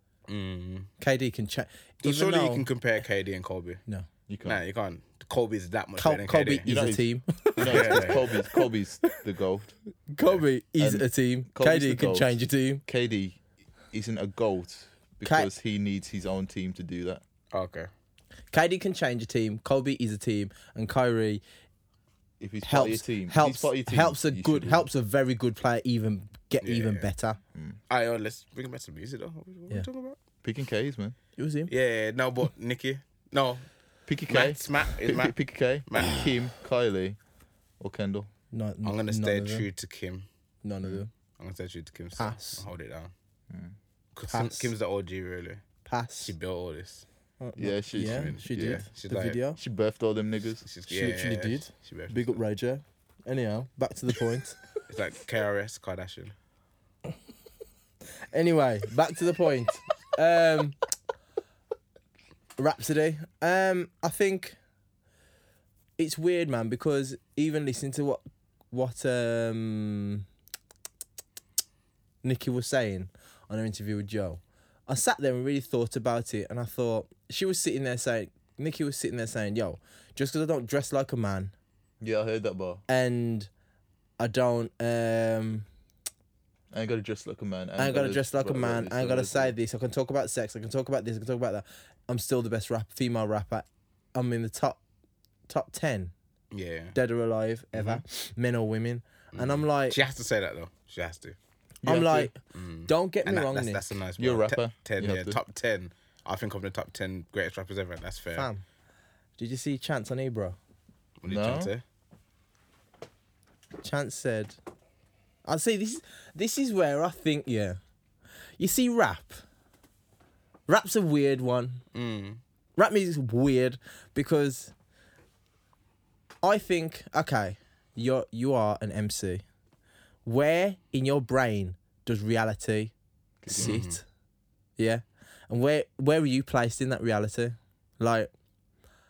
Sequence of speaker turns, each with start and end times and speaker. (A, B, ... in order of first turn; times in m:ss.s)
0:00.3-0:00.9 A
0:01.0-0:02.7 B
0:02.0-0:03.8 A
0:04.3-0:04.6 C
0:04.4-0:06.8 A
0:06.0-0:08.6 B
0:06.6-0:07.0 C
0:07.6-0:09.7 C
0:07.6-0:08.2 A
0:10.1-0:12.8 B
0:10.8-0:12.4 C
0:12.9-0:13.4 C
0:13.9-0:17.2 C
0:15.2-0:15.5 B
0:17.5-0:17.9 A
0:18.5-0:21.4 B
0:22.4-0:24.9 C
0:22.6-0:27.4 B
0:26.6-0:27.1 A
0:27.9-0:30.2 A
0:30.4-0:31.2 C
0:31.4-0:31.7 B
0:31.7-0:33.7 A
0:34.1-0:37.2 C
0:34.3-0:35.3 A
0:35.9-0:36.3 A
0:37.8-0:38.3 C
0:38.5-0:39.7 B
0:38.8-0:40.3 A
0:40.6-0:41.1 B
0:41.4-0:43.1 A
0:42.2-0:42.6 B
0:44.2-0:45.6 A
0:44.3-0:44.7 B
0:45.9-0:46.3 B
0:46.2-0:47.0 A
0:47.4-0:49.6 B
0:47.6-0:48.9 C
0:48.0-0:49.4 A
0:49.6-0:50.6 C
0:50.6-0:52.4 A
0:50.9-0:54.6 B
0:54.9-0:56.3 A
0:58.3-1:00.8 B
1:02.6-1:04.6 B
1:06.0-1:10.3 B
1:12.2-1:21.5 B
1:22.0-1:22.8 C
1:22.9-1:23.5 B
1:24.2-1:25.7 B
1:26.7-1:29.6 C
1:27.8-1:34.8 B
1:35.5-1:36.1 B
1:36.5-1:37.0 A
1:37.0-1:40.0 B
1:37.7-1:38.0 A
1:39.3-1:41.4 A
1:41.8-1:42.3 C
1:41.9-1:43.8 B
1:42.5-1:48.5 A
1:44.2-1:45.4 C
1:48.4-1:48.6 B
1:49.4-1:50.6 B
1:51.2-1:51.8 A
1:51.3-1:51.7 C
1:53.8-1:54.6 B
1:55.5-1:57.8 B
1:58.6-1:59.4 B
2:00.7-2:01.8 B
2:01.9-2:02.4 A
2:02.8-2:04.7 B
2:06.4-2:09.4 B
2:10.2-2:12.9 B
2:13.4-2:13.8 C
2:13.5-2:14.0 B
2:13.6-2:14.0 A
2:14.8-2:18.3 B